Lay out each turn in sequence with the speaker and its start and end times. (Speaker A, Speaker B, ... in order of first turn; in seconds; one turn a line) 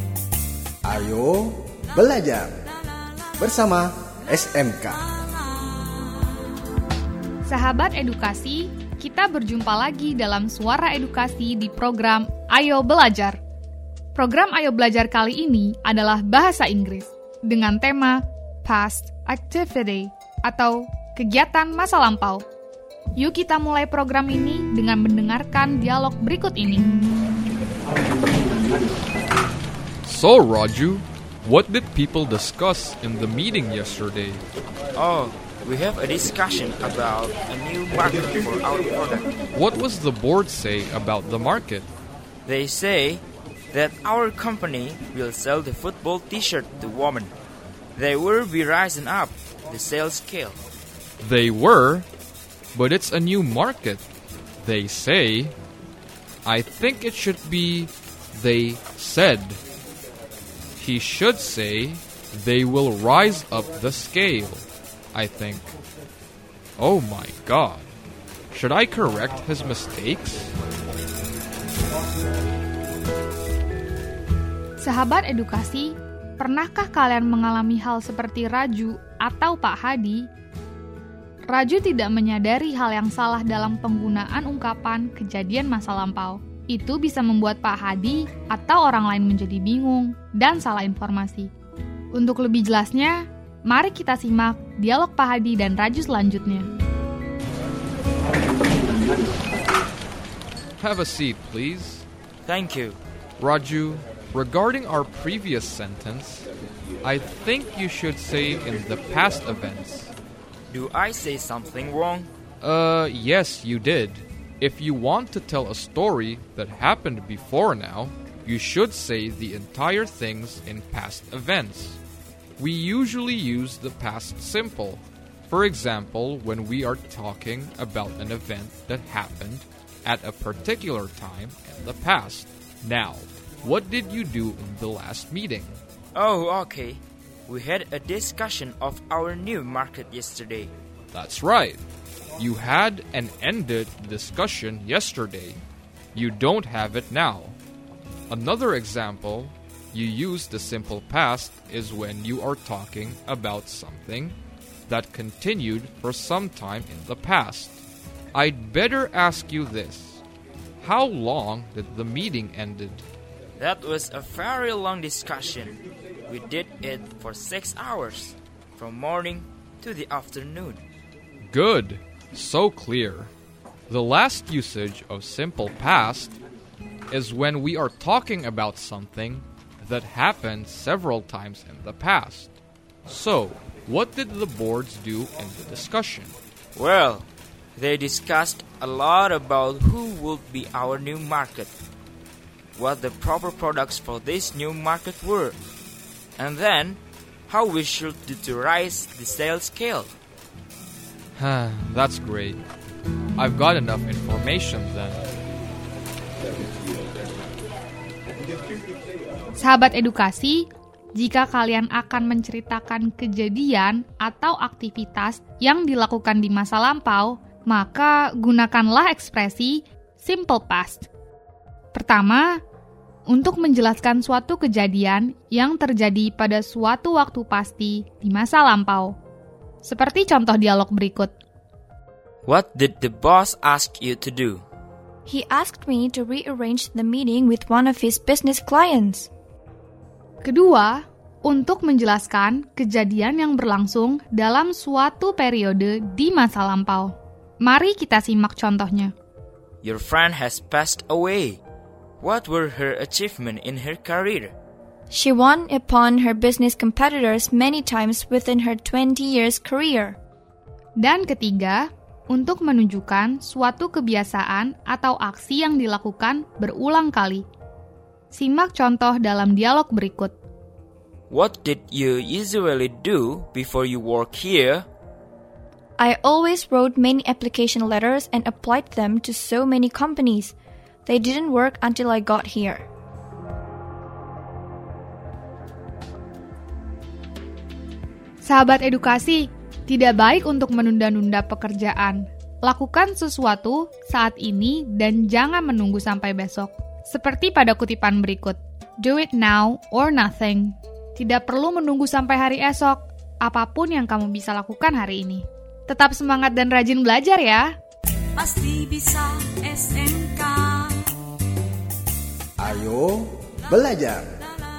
Speaker A: 0.8-2.5
Speaker A: 3.4-5.0
Speaker B: 7.5-13.4
Speaker B: 14.1-22.4
Speaker B: 23.2-26.9
Speaker C: 30.0-34.4
Speaker D: 35.0-39.3
Speaker C: 39.5-41.9
Speaker D: 42.5-47.3
Speaker D: 48.0-50.6
Speaker C: 51.2-52.1
Speaker C: 52.7-54.1
Speaker C: 54.6-55.5
Speaker C: 56.4-59.6
Speaker C: 60.8-65.7
Speaker C: 66.8-67.9
Speaker C: 68.5-70.5
Speaker B: 74.8-80.3
Speaker B: 81.5-91.5
Speaker B: 92.1-96.7
Speaker C: 100.8-102.1
Speaker D: 102.4-103.0
Speaker C: 103.4-106.5
Speaker C: 107.0-110.1
Speaker D: 110.7-112.3
Speaker C: 112.6-122.0
Speaker C: 122.6-135.8
Speaker D: 136.1-140.7
Speaker C: 141.1-141.8
Speaker C: 142.4-145.6
Speaker C: 146.1-147.6
Speaker C: 148.3-154.3
Speaker C: 154.9-157.8
Speaker C: 158.3-160.2
Speaker C: 160.8-163.0
Speaker D: 163.6-170.8
Speaker C: 171.4-173.3
Speaker C: 173.9-176.4
Speaker C: 177.1-186.3
Speaker D: 186.7-191.7
Speaker D: 192.7-195.6
Speaker D: 196.4-200.1
Speaker C: 201.3-202.6
Speaker C: 203.4-205.2
Speaker B: 209.6-221.1
Speaker B: 221.9-222.6
Speaker B: 223.3-229.1
Speaker B: 229.8-231.3
Speaker D: 232.4-234.6
Speaker E: 235.2-239.3
Speaker B: 240.4-249.1
Speaker D: 249.8-251.6
Speaker D: 252.2-254.5
Speaker E: 255.1-260.2
Speaker B: 261.0-267.4
Speaker B: 268.3-270.3
Speaker D: 271.3-274.9
Speaker E: 276.0-280.5
Speaker E: 281.1-282.9
Speaker B: 288.4-307.7
Speaker F: 308.3-311.1
Speaker A: 312.6-314.3